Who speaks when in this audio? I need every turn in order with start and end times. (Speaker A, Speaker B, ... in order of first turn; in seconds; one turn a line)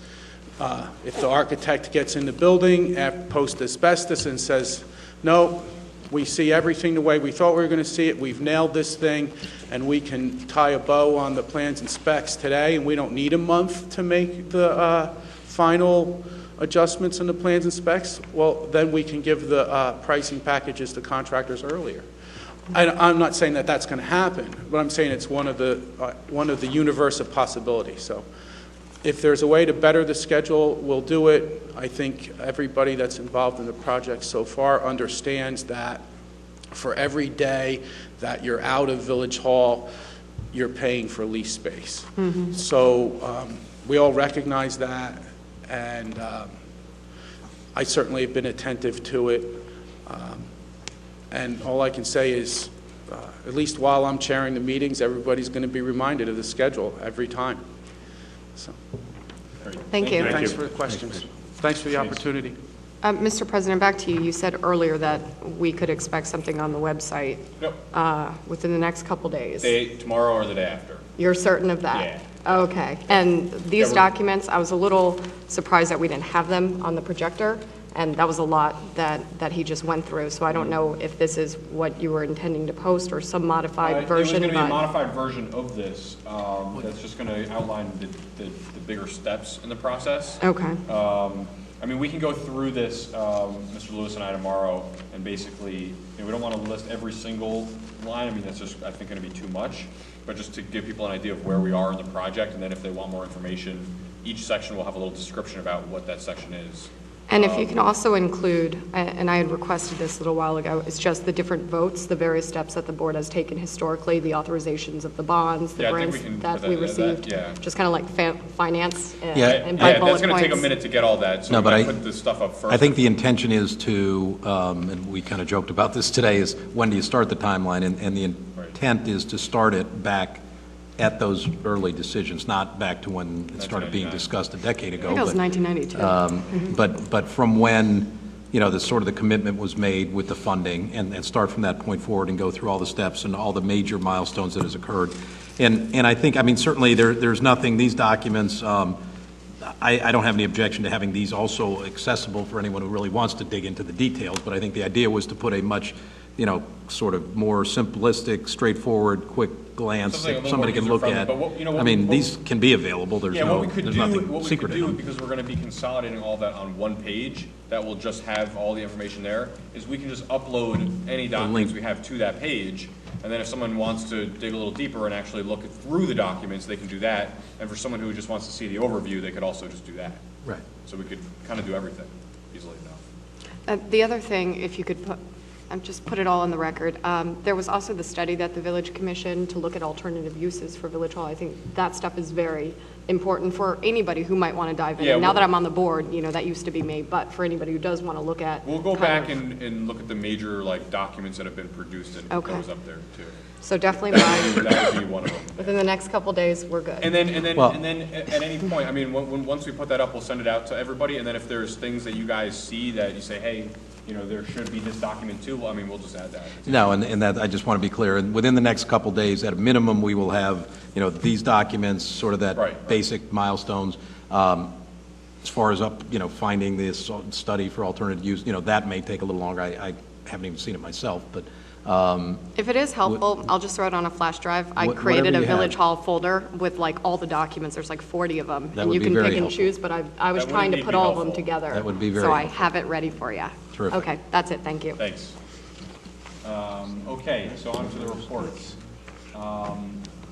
Speaker A: 0.6-22.1
Speaker A: 22.7-28.2
Speaker A: 29.0-36.0
Speaker A: 36.7-39.9
Speaker A: 40.5-46.5
Speaker B: 42.2-42.5
Speaker A: 47.7-50.5
Speaker A: 51.3-57.6
Speaker C: 59.6-60.5
Speaker B: 59.9-60.4
Speaker A: 60.2-62.5
Speaker B: 63.0-69.7
Speaker C: 69.6-71.0
Speaker B: 71.2-84.8
Speaker C: 71.9-72.7
Speaker C: 73.8-74.1
Speaker C: 80.5-80.8
Speaker C: 83.8-107.8
Speaker B: 90.4-90.8
Speaker B: 107.3-120.7
Speaker C: 115.8-117.6
Speaker D: 119.3-120.1
Speaker C: 119.3-123.0
Speaker D: 121.5-122.0
Speaker D: 122.7-130.4
Speaker D: 131.0-135.4
Speaker C: 133.6-134.3
Speaker C: 135.0-135.4
Speaker B: 135.1-136.7
Speaker D: 135.9-149.0
Speaker D: 149.6-164.9
Speaker C: 160.0-162.3
Speaker C: 163.3-180.2
Speaker D: 171.3-171.7
Speaker C: 180.8-183.0
Speaker B: 183.7-185.2
Speaker B: 185.7-199.3
Speaker C: 195.0-195.5
Speaker C: 198.6-203.3
Speaker B: 202.3-202.6
Speaker B: 203.6-204.9
Speaker C: 204.1-205.8
Speaker B: 205.6-207.2
Speaker C: 207.0-216.8
Speaker D: 216.6-224.7
Speaker C: 222.5-223.0
Speaker D: 225.4-232.4
Speaker B: 232.6-245.0
Speaker D: 234.8-235.8
Speaker D: 238.7-239.7
Speaker C: 240.3-241.5
Speaker D: 241.7-242.5
Speaker D: 243.7-244.1
Speaker C: 245.0-245.3
Speaker C: 246.4-248.8
Speaker C: 249.3-250.0